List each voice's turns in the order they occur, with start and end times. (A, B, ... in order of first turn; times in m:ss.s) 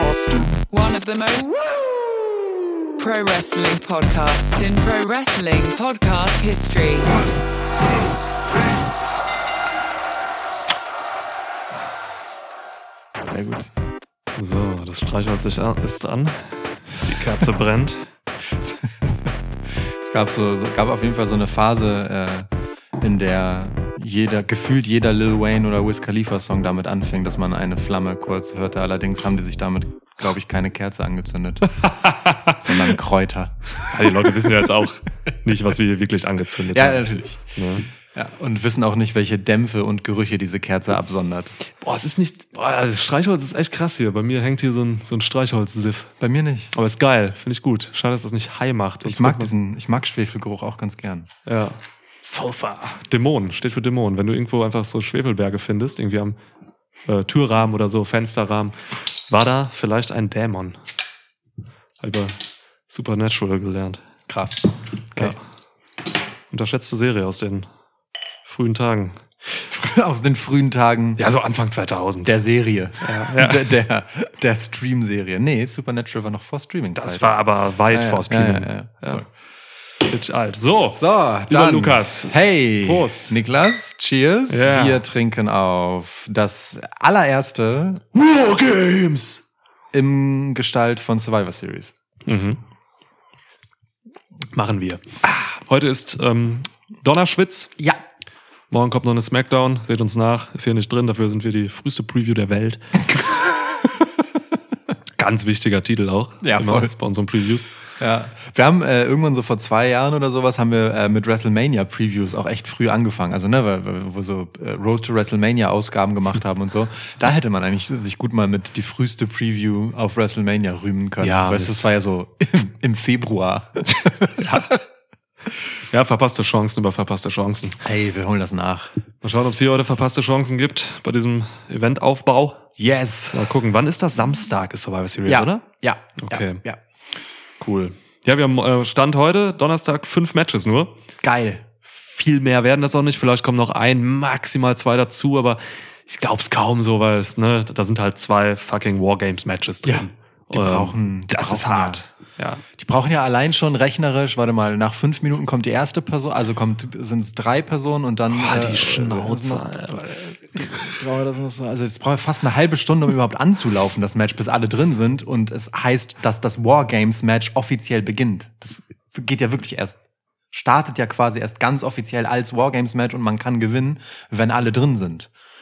0:00.7-0:01.5 A
0:03.0-0:07.2 A
0:13.2-0:13.7 B
0:14.4-0:18.1 C
0:18.6-0:19.3 B
0:20.0-0:22.5 B
0:23.0-0:31.8 B
0:31.8-0:32.7 C
0:32.6-0:34.3 B
0:33.9-0:37.9 C
0:36.7-0:37.5 B
0:38.0-0:41.6 B
0:41.8-0:46.1 C
0:46.2-0:46.7 B
0:46.7-0:49.5 C
0:49.0-0:51.3 B
0:51.4-0:56.4 C
0:57.0-0:58.8 C
0:59.3-1:00.8 C
1:02.0-1:04.1 C
1:04.3-1:05.3 B
1:05.2-1:05.4 C
1:06.5-1:07.7 C
1:08.4-1:09.2 C
1:09.7-1:11.2 B
1:11.2-1:12.3 C
1:12.2-1:17.3 B
1:13.0-1:13.8 C
1:17.0-1:19.2 C
1:17.9-1:19.3 B
1:20.0-1:23.3 C
1:21.0-1:28.1 B
1:24.5-1:25.0 C
1:28.1-1:29.4 C
1:29.9-1:31.9 B
1:32.3-1:32.6 C
1:34.5-1:35.0 C
1:35.6-1:37.7 C
1:38.7-1:43.4 C
1:45.2-1:47.7 C
1:46.4-1:46.9 B
1:48.0-2:04.5 B
2:01.2-2:01.8 C
2:04.4-2:04.7 C
2:05.9-2:07.8 C
2:07.8-2:08.9 B
2:09.2-2:12.7 C
2:12.8-2:13.5 B
2:13.3-2:15.6 C
2:15.3-2:16.8 B
2:16.2-2:16.6 C
2:17.6-2:20.9 C
2:21.2-2:21.7 B
2:21.8-2:32.6 C
2:29.8-2:32.0 B
2:32.7-2:55.3 B
2:38.3-2:40.9 C